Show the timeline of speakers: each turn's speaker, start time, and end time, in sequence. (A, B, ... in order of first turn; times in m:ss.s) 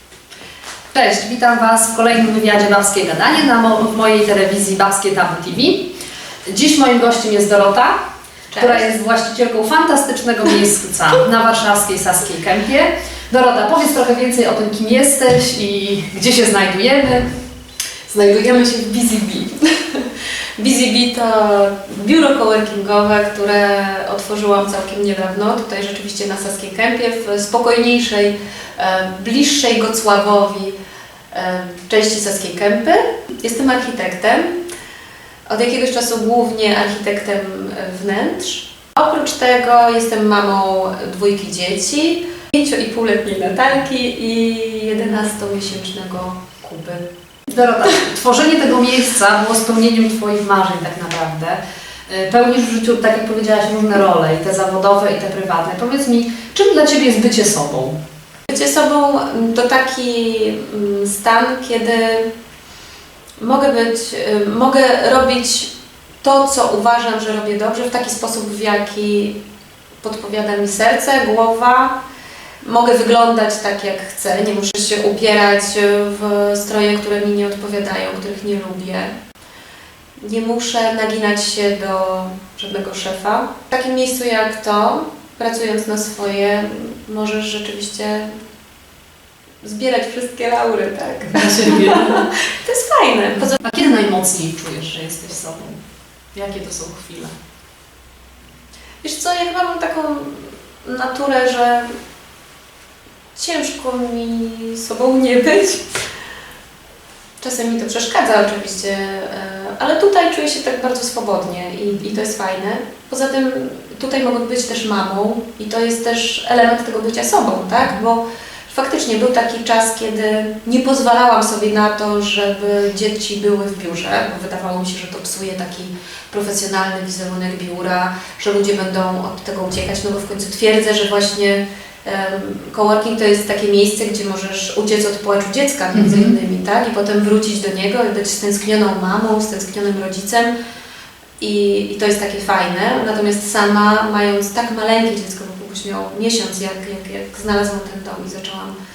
0:00.9-0:05.9 A
0:06.5-0:08.0 A
0:08.5-0:08.9 B
0:08.6-0:17.2 A
0:18.1-0:30.8 B
0:31.3-0:34.5 B
0:35.5-0:47.0 B
0:47.5-0:58.0 A
0:58.5-1:02.2 B
1:03.4-1:05.7 B
1:06.2-1:09.4 B
1:10.0-1:12.0 B
1:12.6-1:19.1 B
1:20.2-1:28.3 B
1:29.6-1:33.6 B
1:31.4-1:32.2 A
1:33.5-1:35.8 A
1:36.3-1:37.3 A
1:39.0-1:41.9 B
1:43.4-1:45.8 B
1:47.4-2:20.5 B
2:15.9-2:16.3 A
2:21.4-2:28.7 B